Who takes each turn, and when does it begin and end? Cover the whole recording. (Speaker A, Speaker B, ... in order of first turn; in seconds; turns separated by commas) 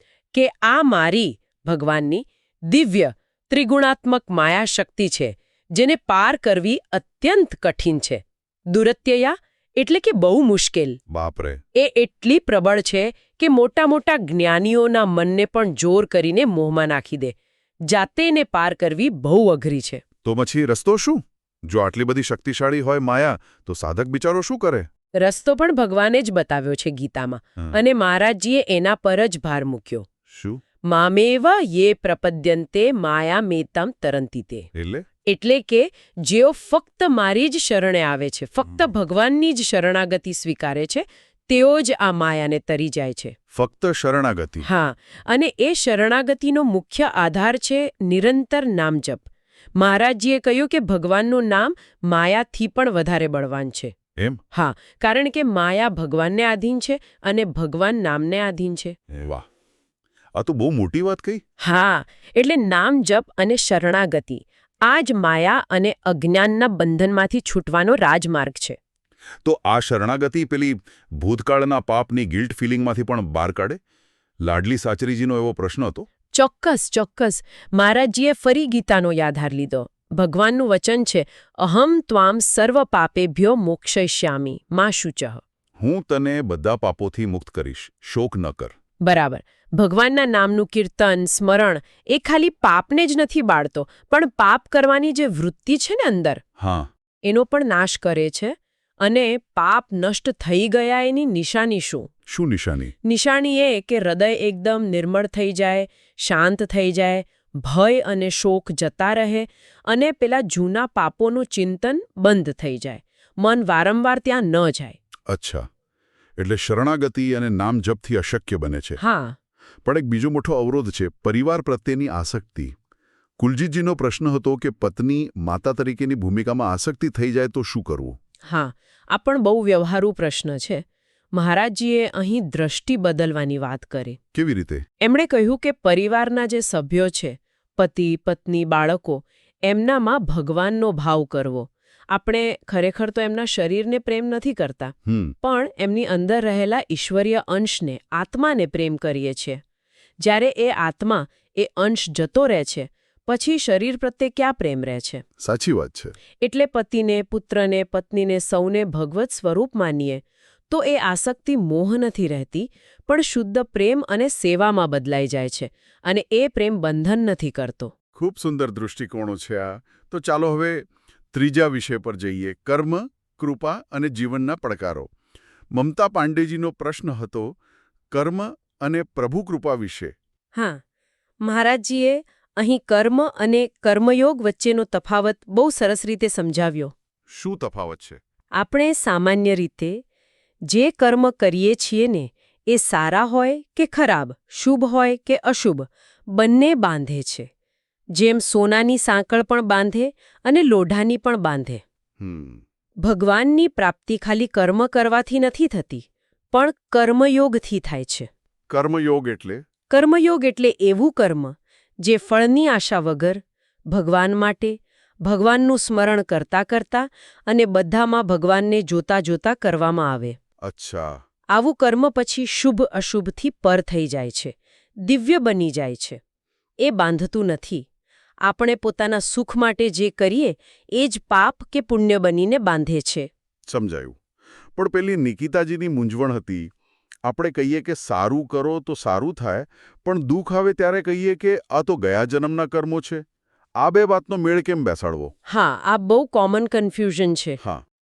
Speaker A: 0.3-11.0, Speaker B: 11.1-11.6, Speaker A: 11.7-17.3, Speaker A: 17.9-20.0, Speaker B: 20.2-24.9, Speaker A: 25.2-30.1, Speaker B: 30.3-30.6, Speaker A: 30.8-34.7, Speaker B: 34.7-35.0, Speaker A: 35.2-43.3, Speaker B: 43.5-44.7, Speaker A: 44.6-53.9, Speaker A: 54.5-59.0, Speaker B: 59.1-59.4, Speaker B: 60.4-61.4, Speaker A: 61.6-68.8, Speaker B: 69.4-73.8, Speaker B: 74.4-76.1, Speaker A: 76.3-85.4, Speaker B: 85.8-88.7, Speaker A: 89.0-96.4, Speaker B: 96.6-96.9, Speaker A: 97.2-102.1, Speaker B: 102.3-102.9, Speaker A: 103.0-115.0, Speaker B: 115.3-115.7, Speaker B: 116.4-119.0, Speaker A: 119.0-119.4, Speaker B: 119.8-122.7, Speaker B: 123.4-128.2, Speaker A: 128.4-134.2, Speaker B: 134.3-134.8, Speaker A: 135.0-149.6, Speaker B: 145.1-145.3, Speaker A: 150.2-155.2, Speaker B: 155.4-156.1, Speaker A: 156.4-167.9, Speaker B: 168.1-175.1, Speaker B: 175.7-177.6, Speaker B: 178.1-180.2, Speaker A: 180.5-180.8, Speaker A: 181.4-186.9, Speaker B: 187.3-188.2, Speaker A: 188.5-190.0, Speaker A: 190.7-197.5, Speaker A: 198.1-201.8, Speaker B: 202.2-202.6, Speaker A: 203.0-208.3, Speaker B: 208.7-209.6, Speaker A: 209.9-220.4, Speaker B: 220.6-221.2, Speaker A: 221.5-226.2, Speaker A: 226.8-227.8, Speaker A: 228.4-233.3, Speaker B: 233.7-234.2, Speaker B: 234.7-236.7, Speaker B: 237.2-243.2, Speaker B: 243.8-245.3, Speaker A: 245.4-247.6